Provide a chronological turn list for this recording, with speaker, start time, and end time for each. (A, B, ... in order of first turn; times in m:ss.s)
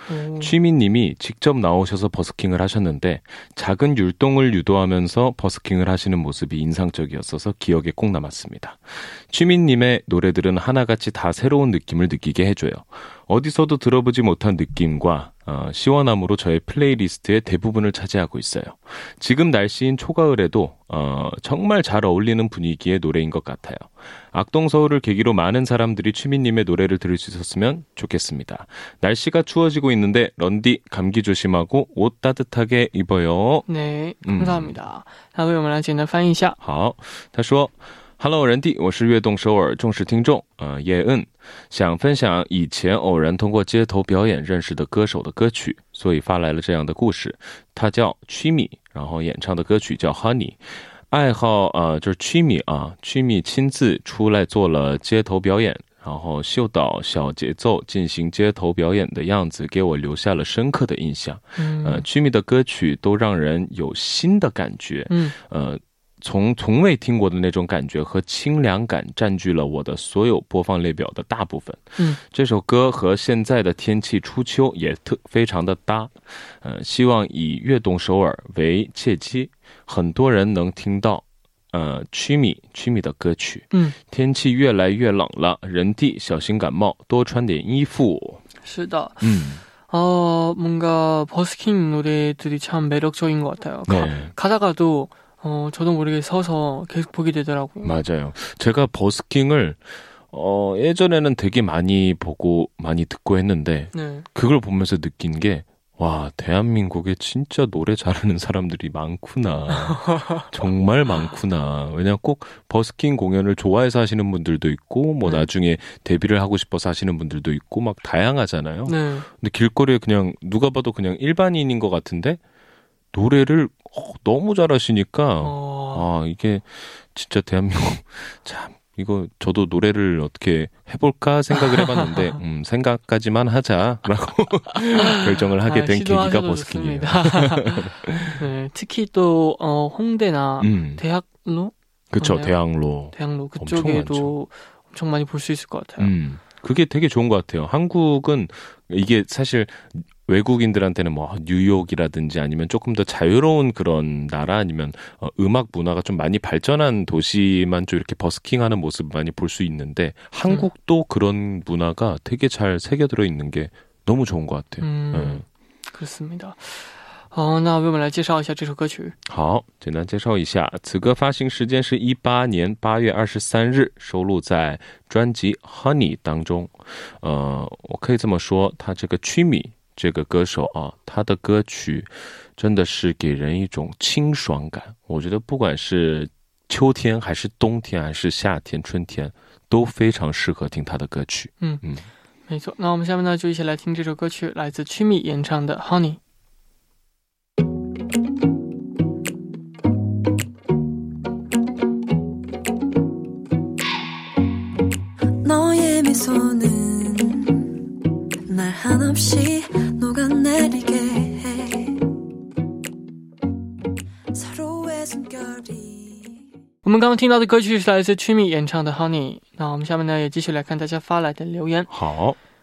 0:00.1-0:00.5 A
0:00.4-0:33.7 B
0:33.7-0:36.6 A
0:34.2-0:34.7 B
0:36.6-1:28.4 B
1:01.6-1:02.1 A
1:28.6-1:29.3 A
1:29.2-1:29.6 B
1:29.9-1:37.9 A
1:33.9-1:34.3 B
1:37.8-2:02.4 B
1:43.9-1:44.3 A
1:49.7-1:50.5 A
1:58.9-1:59.3 A
2:03.1-2:18.4 B
2:05.4-2:06.0 A
2:11.5-2:12.4 A
2:14.9-2:22.6 A
2:20.6-2:21.0 B
2:22.1-2:24.3 B
2:23.1-2:26.1 A
2:26.0-2:45.4 B
2:44.8-2:49.2 A
2:49.3-3:12.1 B
3:12.5-3:16.2 A
3:25.4-3:27.8 C
3:28.5-3:32.1 C
3:34.3-3:36.4 C
3:36.8-3:41.9 A
3:41.9-3:42.4 B